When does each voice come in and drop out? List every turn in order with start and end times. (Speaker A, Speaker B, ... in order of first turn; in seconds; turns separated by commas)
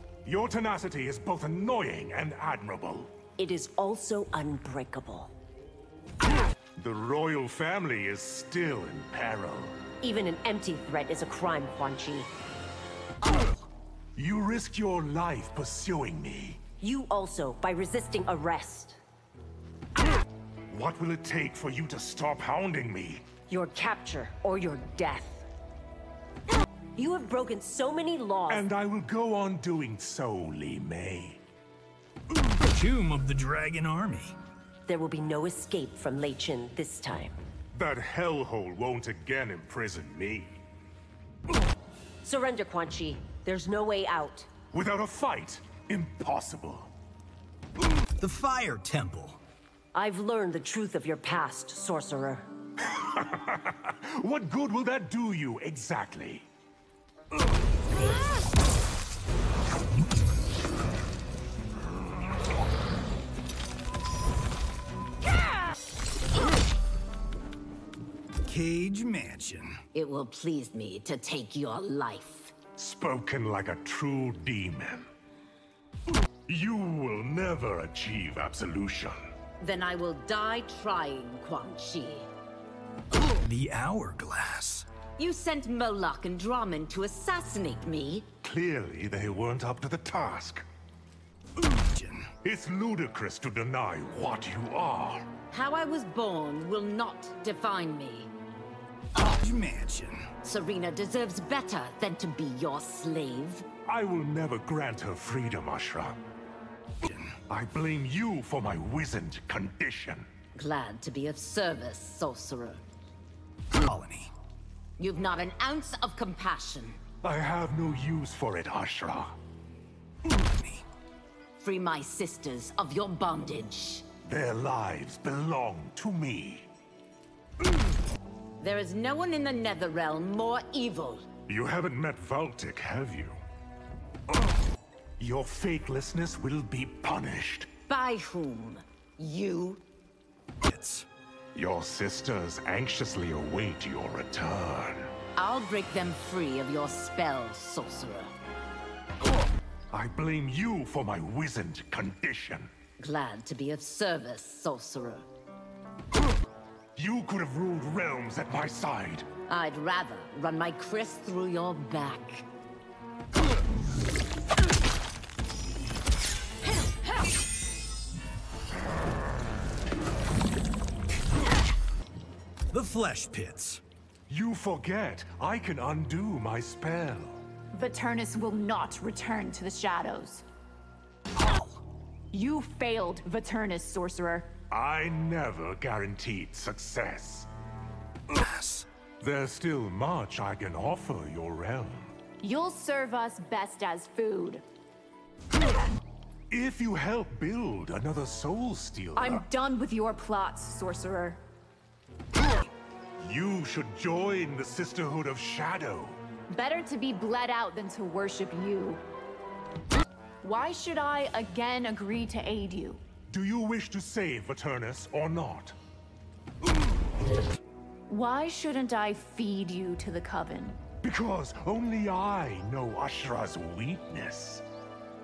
Speaker A: 0.2-3.1, Speaker B: 3.4-5.3, Speaker A: 6.8-9.8, Speaker B: 10.0-12.3, Speaker A: 14.2-16.6, Speaker B: 16.8-19.0, Speaker A: 20.7-23.3, Speaker B: 23.5-25.4, Speaker B: 26.9-28.7, Speaker A: 28.5-31.4, Speaker C: 32.5-34.3, Speaker B: 34.9-37.4, Speaker A: 37.7-40.6, Speaker B: 42.2-44.5, Speaker A: 44.7-46.9, Speaker C: 48.2-49.4, Speaker B: 49.9-52.5, Speaker A: 53.1-56.5, Speaker C: 68.4-69.8, Speaker D: 69.9-72.6, Speaker A: 72.8-75.1, Speaker A: 76.5-79.2, Speaker D: 79.6-82.3, Speaker C: 83.4-84.8, Speaker D: 85.2-88.3, Speaker A: 88.4-90.7, Speaker C: 91.6-92.3, Speaker A: 92.4-95.3, Speaker D: 95.5-98.3, Speaker C: 99.1-100.2, Speaker D: 100.4-103.6, Speaker A: 103.8-106.2, Speaker C: 107.0-107.3, Speaker A: 107.5-110.3, Speaker D: 110.5-112.8, Speaker C: 113.7-114.3, Speaker D: 115.0-117.0, Speaker A: 117.2-119.3, Speaker C: 120.4-120.8, Speaker D: 121.6-124.0, Speaker A: 124.2-126.7, Speaker D: 128.6-131.3, Speaker A: 131.5-133.4, Speaker A: 135.2-137.7, Speaker D: 137.9-139.8, Speaker C: 140.6-141.1, Speaker A: 141.5-145.1, Speaker D: 145.3-148.3, Speaker A: 149.9-152.7, Speaker D: 153.0-155.2, Speaker A: 156.9-159.3, Speaker D: 159.5-162.4, Speaker C: 172.7-173.8, Speaker A: 174.3-177.4, Speaker E: 177.7-180.4, Speaker C: 181.4-181.7, Speaker E: 182.3-184.5, Speaker A: 184.7-187.5, Speaker C: 188.3-188.8, Speaker A: 189.2-192.1, Speaker E: 192.4-194.6, Speaker A: 196.5-199.4, Speaker E: 199.2-201.4, Speaker A: 203.2-206.2, Speaker E: 206.5-209.0, Speaker E: 210.4-213.0, Speaker A: 213.3-215.8, Speaker E: 218.1-220.8, Speaker A: 221.0-224.6